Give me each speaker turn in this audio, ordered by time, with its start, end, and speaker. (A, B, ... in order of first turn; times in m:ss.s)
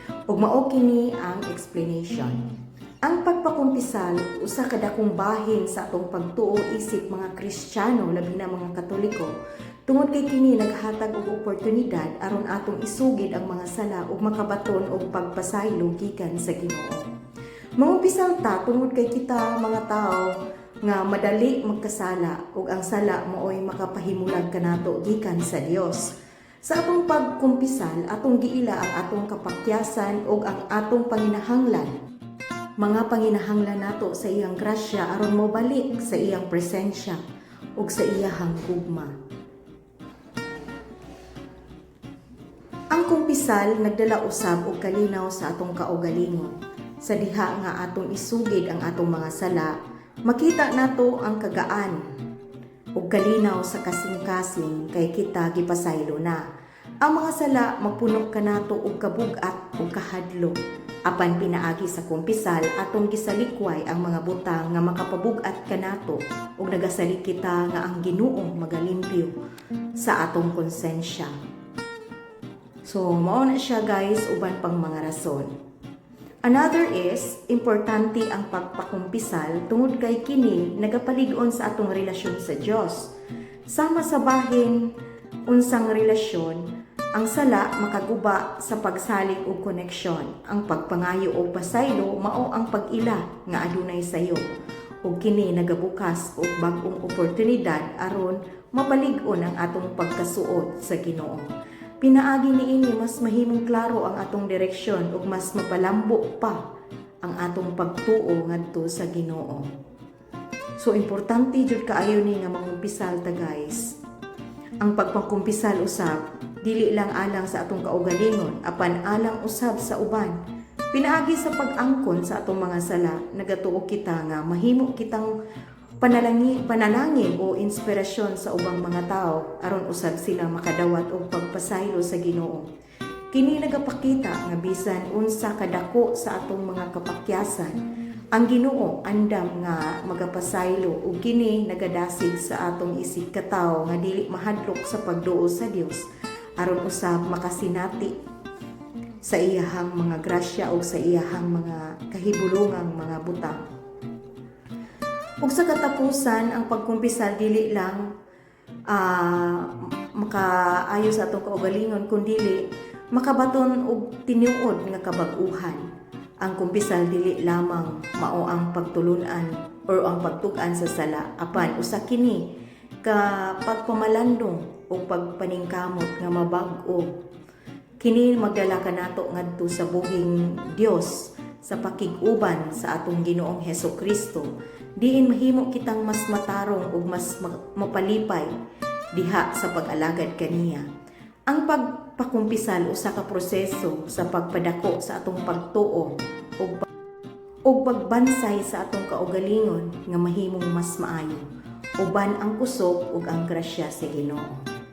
0:00.3-0:02.5 A
0:03.0-0:09.3 A
0:09.9-0:17.1 A
0:17.8-0:20.3 A
0:20.8-0:31.9 A
0:32.8-0:37.2 A
0:37.8-0:39.2 A
0:42.9-0:52.0 A
0:53.0-0:56.5 A
0:57.0-1:09.4 A
1:10.0-1:11.4 A
1:12.8-1:15.5 A
1:16.4-1:23.1 A
1:23.7-1:24.9 A
1:25.5-1:34.4 A
1:35.0-1:41.5 A
1:42.0-1:46.6 A
1:47.2-1:49.7 A
1:50.8-1:53.9 A
1:54.8-2:00.4 A
2:00.9-2:05.3 A
2:06.0-2:12.7 A
2:13.3-2:17.8 A
2:18.3-2:28.2 A
2:29.2-2:33.6 A
2:35.4-2:38.1 A
2:38.9-2:45.8 A
2:46.4-2:57.2 A
2:58.0-3:08.5 A
3:09.1-3:10.9 A
3:11.5-3:16.8 A
3:17.6-3:21.5 A
3:22.0-3:24.6 A